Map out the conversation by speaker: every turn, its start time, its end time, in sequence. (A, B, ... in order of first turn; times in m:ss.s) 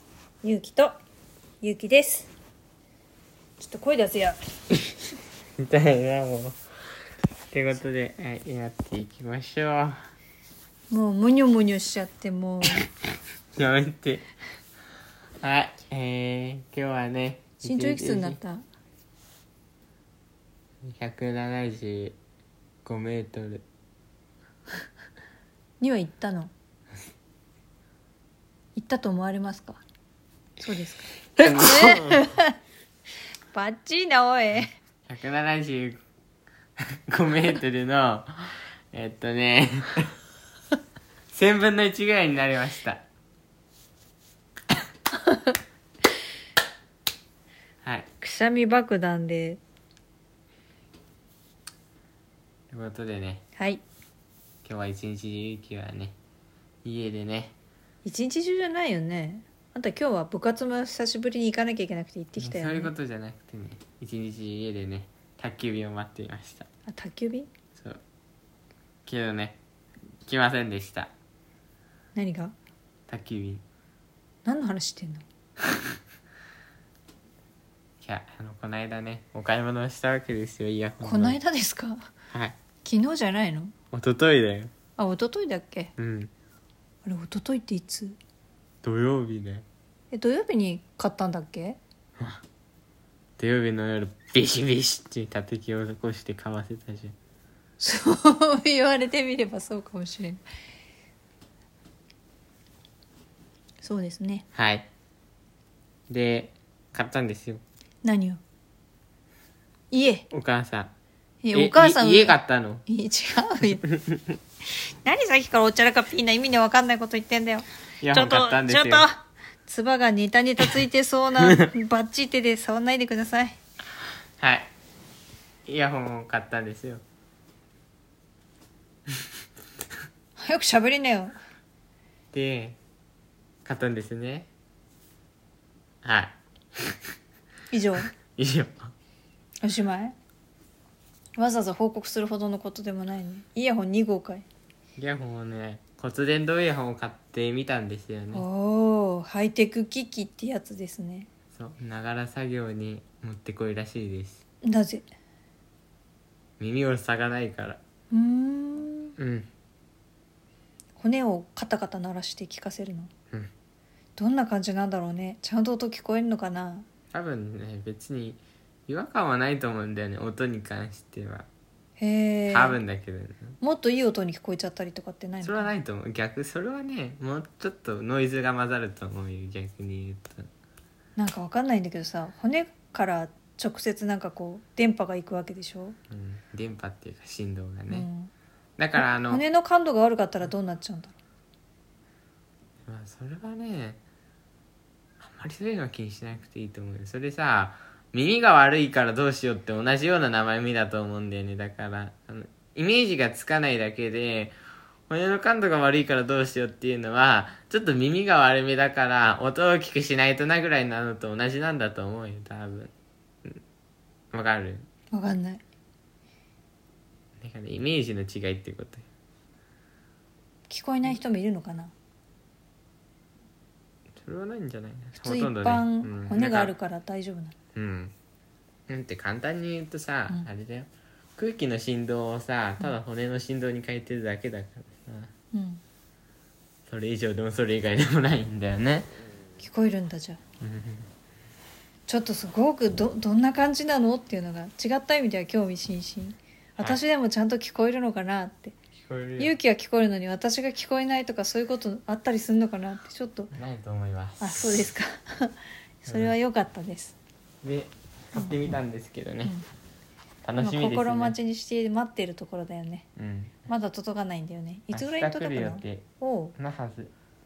0:00.4-0:00.9 A
0:01.6-0:02.3 A
0:03.6-0:04.4 A
0:05.6-0:06.6 B
0:07.5-0:10.0 B
0:10.9-0:12.8 A
0:13.6-0:14.2 B
0:15.4-0:18.4 B
0:17.6-0:18.6 A
0:20.8-0:22.2 B
0:22.8-0:23.6 B
0:25.8-0:26.5 A
0:28.8-0:29.8 A
0:30.6-0:32.6 A
0:31.4-0:32.3 B
0:33.5-0:34.7 A
0:35.1-0:36.0 B
0:36.9-0:40.2 B
0:41.3-0:43.0 B
0:47.8-0:48.1 B
0:48.2-0:49.6 A
0:52.7-0:53.4 B
0:53.6-0:53.8 A
0:54.6-0:56.2 B
0:56.8-0:57.5 B
0:58.0-1:02.9 A
1:02.4-1:06.7 B
1:06.9-1:07.5 A
1:09.1-1:09.6 B
1:10.2-1:11.1 B
1:12.2-1:12.5 A
1:13.1-1:13.6 B
1:14.4-1:15.2 A
1:18.0-1:21.4 B
1:21.0-1:22.1 A
1:22.8-1:23.7 A
1:23.9-1:24.7 B
1:25.0-1:25.9 A
1:26.0-1:26.3 B
1:27.0-1:28.2 A
1:28.8-1:29.6 B
1:30.1-1:31.8 A
1:32.2-1:32.4 B
1:33.4-1:37.2 B
1:37.8-1:40.4 A
1:43.8-1:44.4 A
1:44.5-1:44.9 B
1:46.1-1:47.6 B
1:48.0-1:48.4 A
1:49.9-1:50.3 A
1:50.3-1:50.9 B
1:51.4-1:53.9 A
1:51.5-1:52.8 B
1:55.0-2:03.6 A
1:58.0-1:59.1 B
2:04.4-2:04.7 B
2:05.7-2:07.0 B
2:10.4-2:11.4 A
2:12.3-2:12.8 B
2:13.6-2:14.5 B
2:16.0-2:17.0 B
2:17.7-2:18.1 A
2:18.3-2:18.9 B
2:19.6-2:20.2 A
2:21.4-2:24.4 A
2:25.0-2:28.5 B
2:28.3-2:31.3 A
2:31.5-2:34.4 B
2:34.6-2:35.1 A
2:36.6-2:37.8 B
2:38.1-2:39.2 A
2:39.2-2:39.5 B
2:41.0-2:43.1 A
2:44.2-2:46.9 A
2:47.1-2:51.5 B
2:52.0-2:52.8 A
2:52.5-2:53.6 B
2:53.6-2:55.7 A
2:55.4-3:00.5 B
3:01.2-3:06.0 A
3:06.1-3:08.1 B
3:07.9-3:08.3 A
3:08.8-3:09.4 B
3:09.0-3:11.2 A
3:12.9-3:14.0 B
3:15.2-3:24.6 B
3:25.1-3:32.9 B
3:34.3-3:34.9 B
3:35.1-3:35.6 A
3:37.4-3:39.1 B
3:40.7-3:41.9 A
3:44.2-3:46.7 B
3:45.2-3:47.5 A
3:47.8-3:48.1 B
3:48.9-3:55.3 B
3:55.5-3:55.8 A
3:56.9-3:59.1 B
3:59.6-4:00.4 A
4:00.6-4:01.1 B
4:02.1-4:08.8 A
4:09.0-4:09.6 B
4:09.4-4:13.6 A
4:13.6-4:14.8 B
4:14.4-4:17.2 A
4:16.1-4:16.4 B
4:17.6-4:19.6 B
4:20.4-4:21.4 B
4:20.6-4:23.1 A
4:23.2-4:23.7 B
4:23.7-4:26.6 A
4:24.9-4:26.0 B
4:26.6-4:27.1 B